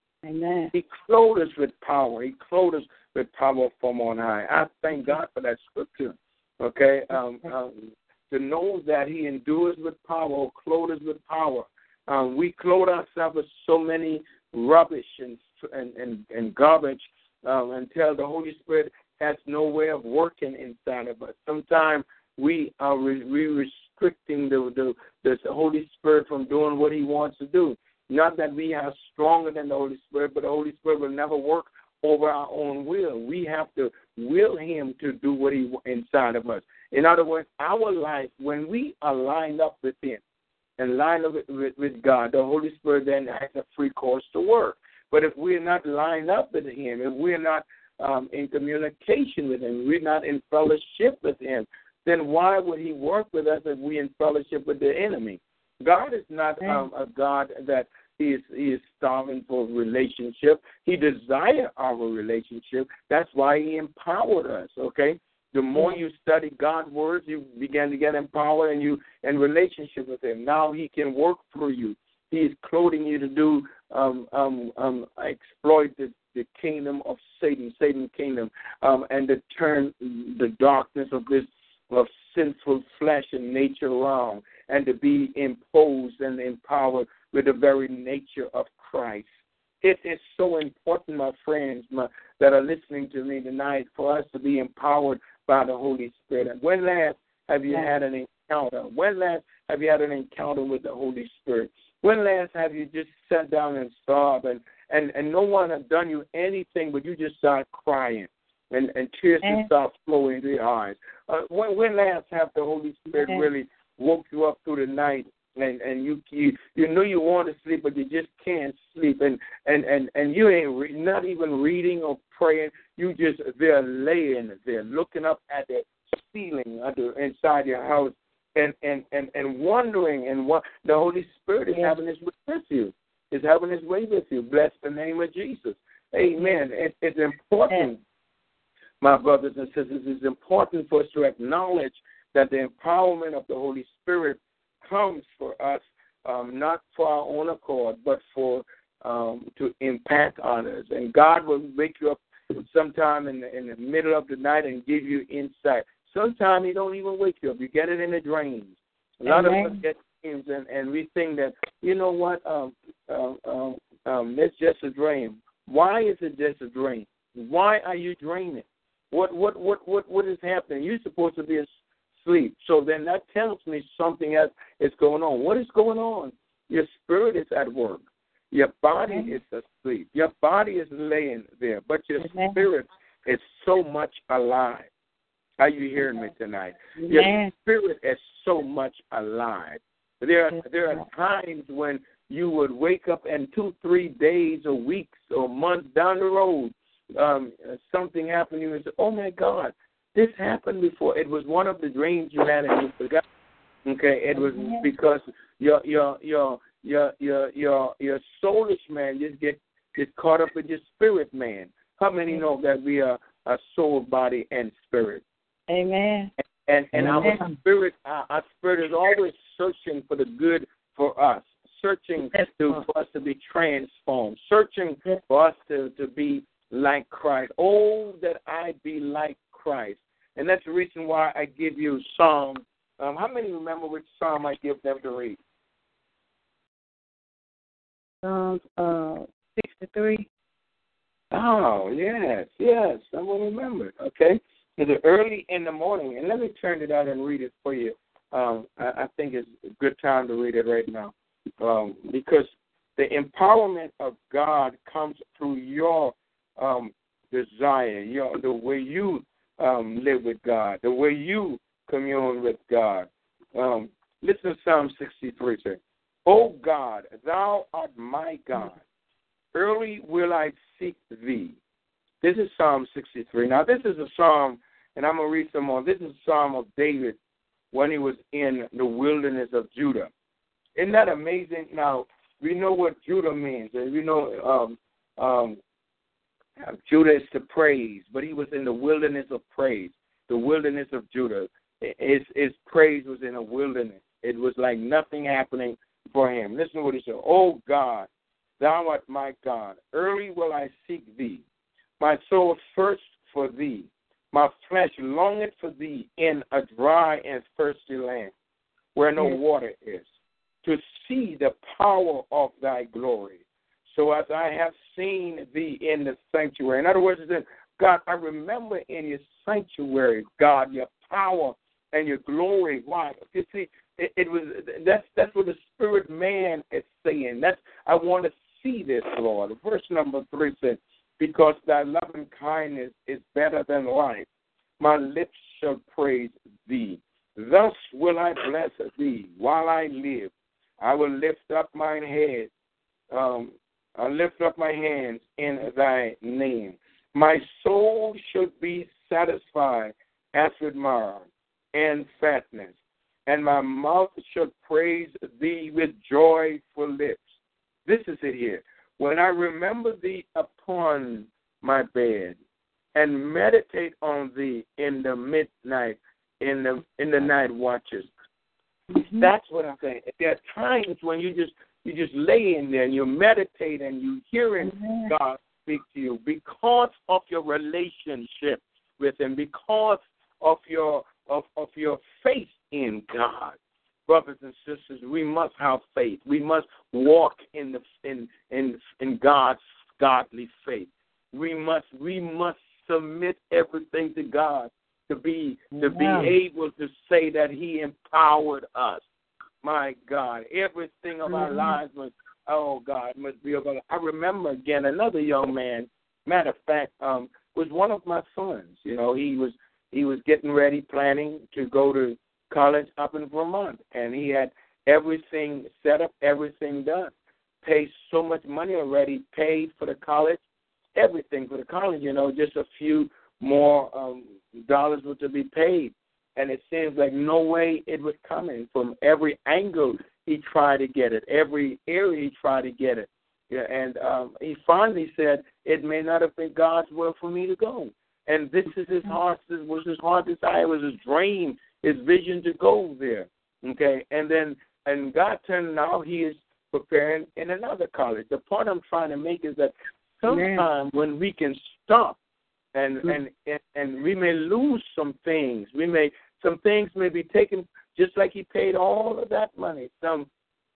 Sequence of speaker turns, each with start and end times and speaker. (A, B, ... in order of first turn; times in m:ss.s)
0:00.2-0:00.7 A
0:00.7-0:40.2 B
0:40.8-1:29.3 B
1:29.8-2:18.0 B
2:19.0-2:51.7 B
2:39.3-2:39.8 A
2:52.2-3:04.9 B
3:02.2-3:02.6 A
3:05.6-3:23.2 B
3:07.0-3:07.5 A
3:10.5-3:11.0 A
3:23.9-3:35.2 B
3:24.4-3:24.9 A
3:35.7-3:36.3 A
3:36.7-3:55.4 B
3:37.0-3:37.5 A
3:42.3-3:42.8 A
3:58.2-4:00.3 A
4:01.3-4:28.8 B
4:29.5-4:31.6 B
4:32.2-4:37.2 B
4:37.7-4:40.1 B
4:40.8-4:45.6 B
4:46.6-4:58.1 B
4:58.6-5:01.4 B
5:02.0-5:08.3 B
5:09.0-5:10.1 B
5:10.6-5:34.3 B
5:34.8-5:42.5 B
5:43.1-5:52.8 B
5:53.3-5:57.3 B
5:57.9-6:02.4 B
6:03.0-6:08.1 B
6:08.9-6:09.3 A
6:09.2-6:39.0 B
6:14.6-6:15.1 A
6:39.6-6:57.1 B
6:57.6-7:00.4 B
7:01.0-7:32.2 B
7:30.3-7:30.6 A
7:32.7-7:40.3 B